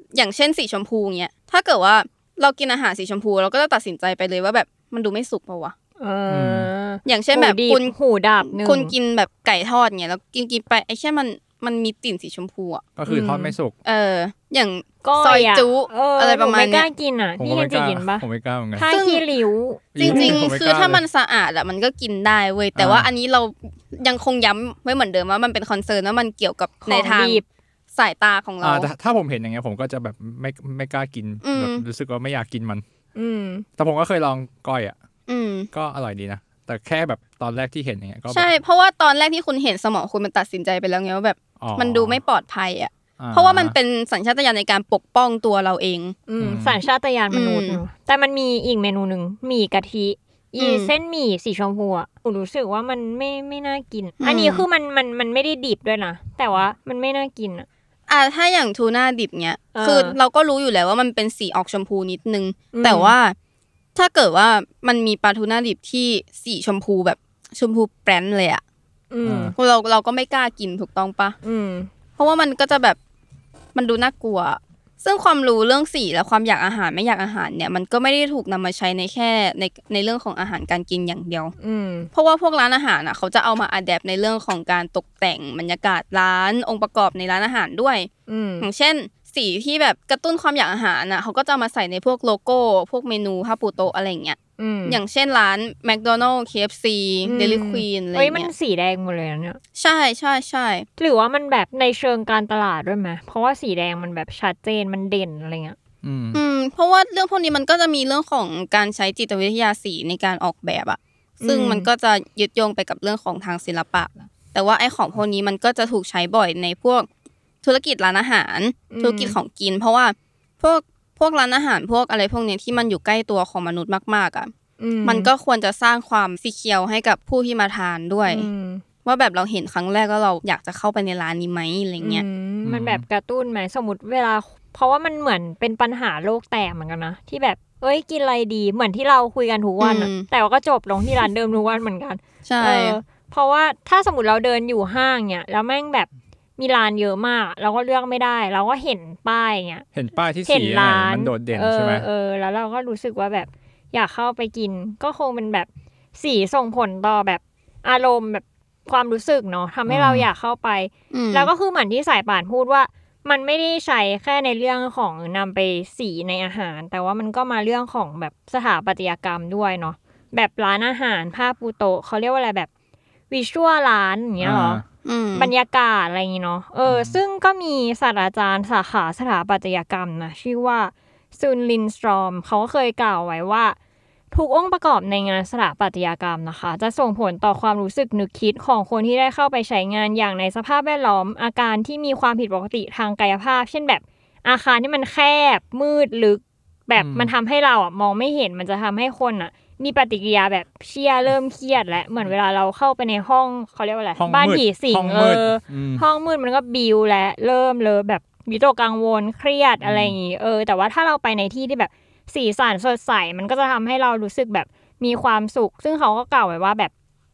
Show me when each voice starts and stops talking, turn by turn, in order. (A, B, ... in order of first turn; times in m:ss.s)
0:00.1-0:05.7 A
0:06.0-0:08.9 B
0:06.3-0:06.7 C
0:07.1-0:12.9 A
0:13.0-0:13.8 C
0:13.1-0:13.6 B
0:13.8-0:16.9 A
0:15.0-0:20.4 B
0:17.4-0:18.9 C
0:18.8-0:19.2 A
0:19.9-0:21.0 C
0:20.0-0:27.4 A
0:22.8-0:23.1 C
0:26.8-0:27.4 B
0:27.9-0:28.9 A
0:28.6-0:32.8 C
0:31.4-0:31.8 A
0:33.2-0:33.7 B
0:33.8-0:35.0 C
0:35.3-0:35.7 A
0:35.7-0:38.5 C
0:38.3-0:46.2 A
0:41.6-0:42.2 C
0:43.2-0:43.8 C
0:46.3-0:57.7 B
0:46.4-0:46.8 C
0:47.3-0:47.8 A
0:50.6-0:50.9 A
0:54.2-0:54.6 A
0:58.1-1:03.4 A
0:59.7-1:00.2 B
1:02.7-1:03.1 B
1:04.0-1:08.6 A
1:09.1-1:09.5 B
1:09.2-1:09.5 C
1:09.6-1:11.4 A
1:11.4-1:11.9 B
1:12.2-1:13.0 A
1:13.8-1:21.5 A
1:21.6-1:22.1 B
1:22.1-1:28.1 A
1:28.3-1:28.7 B
1:28.6-1:38.5 A
1:34.6-1:35.0 B
1:37.2-1:39.6 B
1:39.8-1:40.9 A
1:41.0-1:45.8 B
1:46.0-1:46.4 C
1:46.3-1:57.1 A
1:51.4-1:51.9 B
1:57.6-2:04.5 A
1:58.9-1:59.4 B
2:04.8-2:05.3 B
2:05.0-2:08.5 A
2:08.3-2:08.8 B
2:09.0-2:12.2 A
2:12.0-2:29.9 B
2:12.6-2:13.0 C
2:19.8-2:20.3 A
2:22.5-2:23.0 A
2:29.9-2:32.1 C
2:30.5-2:52.7 B
2:39.9-2:40.3 C
2:41.1-2:41.5 A
2:53.3-2:54.8 B
2:54.4-2:54.8 C
2:55.0-2:55.5 A
2:55.4-3:03.8 B
2:56.9-2:57.2 C
3:04.3-3:36.9 B
3:17.0-3:17.3 C
3:24.2-3:26.0 C
3:29.8-3:30.2 C